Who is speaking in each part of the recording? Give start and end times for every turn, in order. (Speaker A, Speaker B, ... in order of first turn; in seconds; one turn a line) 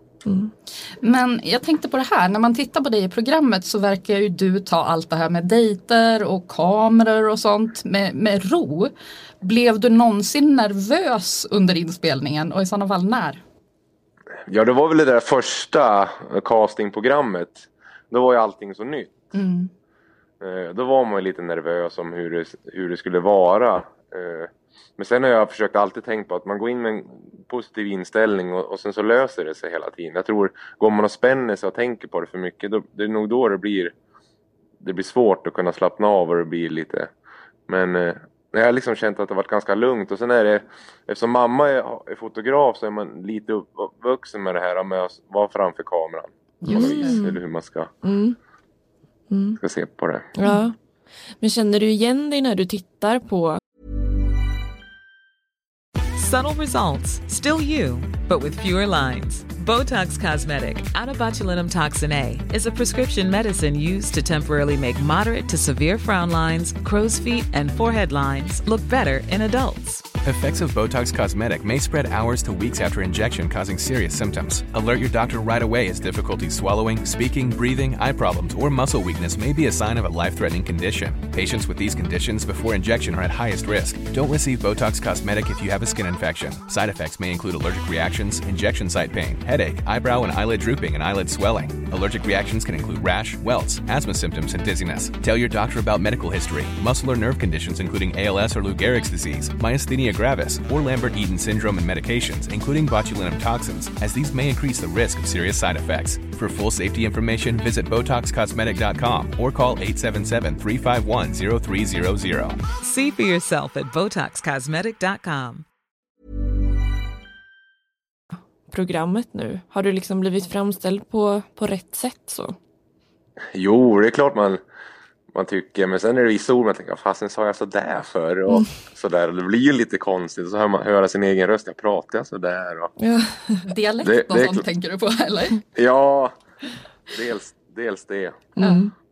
Speaker A: 0.2-0.5
Speaker B: 1.0-13.4
Speaker C: 14.5-19.2
Speaker B: 19.3-19.7
Speaker C: 20.4-33.9
Speaker C: 34.8-37.1
Speaker C: 37.7-47.9
Speaker B: 46.6-47.2
Speaker A: 46.7-47.4
Speaker A: 48.0-48.4
Speaker A: 49.3-49.6
Speaker C: 49.6-50.3
Speaker A: 50.4-50.7
Speaker A: 51.4-53.6
Speaker D: 56.2-70.1
Speaker E: 70.2-112.6
Speaker D: 112.8-115.6
Speaker A: 118.7-122.6
Speaker C: 123.5-124.6
Speaker C: 125.3-132.9
Speaker A: 133.0-133.6
Speaker B: 133.6-135.6
Speaker C: 134.0-134.7
Speaker C: 135.7-136.3
Speaker C: 137.1-138.5
Speaker A: 138.6-138.9